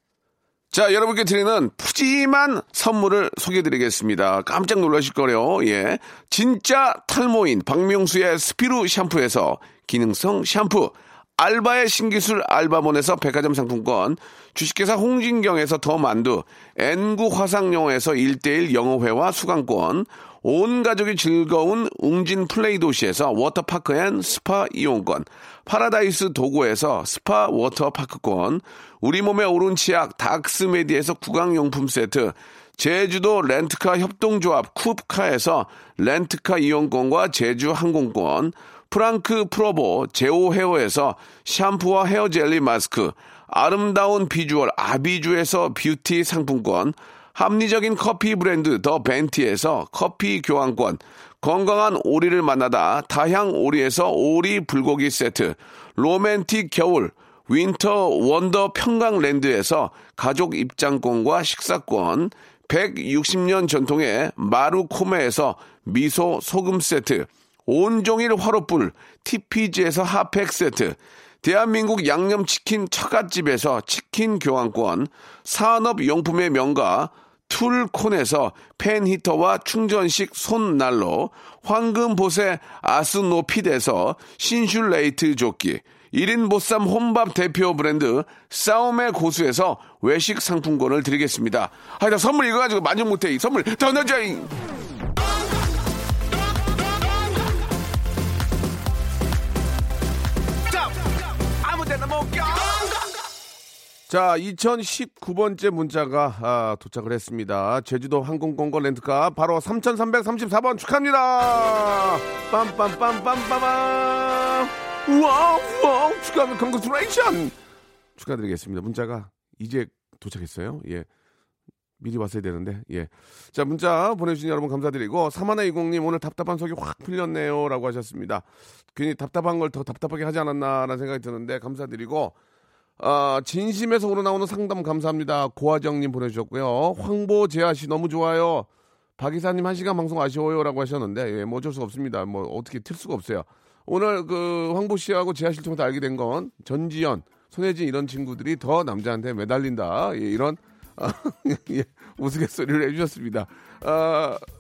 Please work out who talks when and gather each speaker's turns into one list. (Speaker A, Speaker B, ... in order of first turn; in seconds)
Speaker A: 0.7-94.5, 101.6-102.9, 104.1-117.6, 118.2-121.1, 122.0-132.3, 133.0-154.4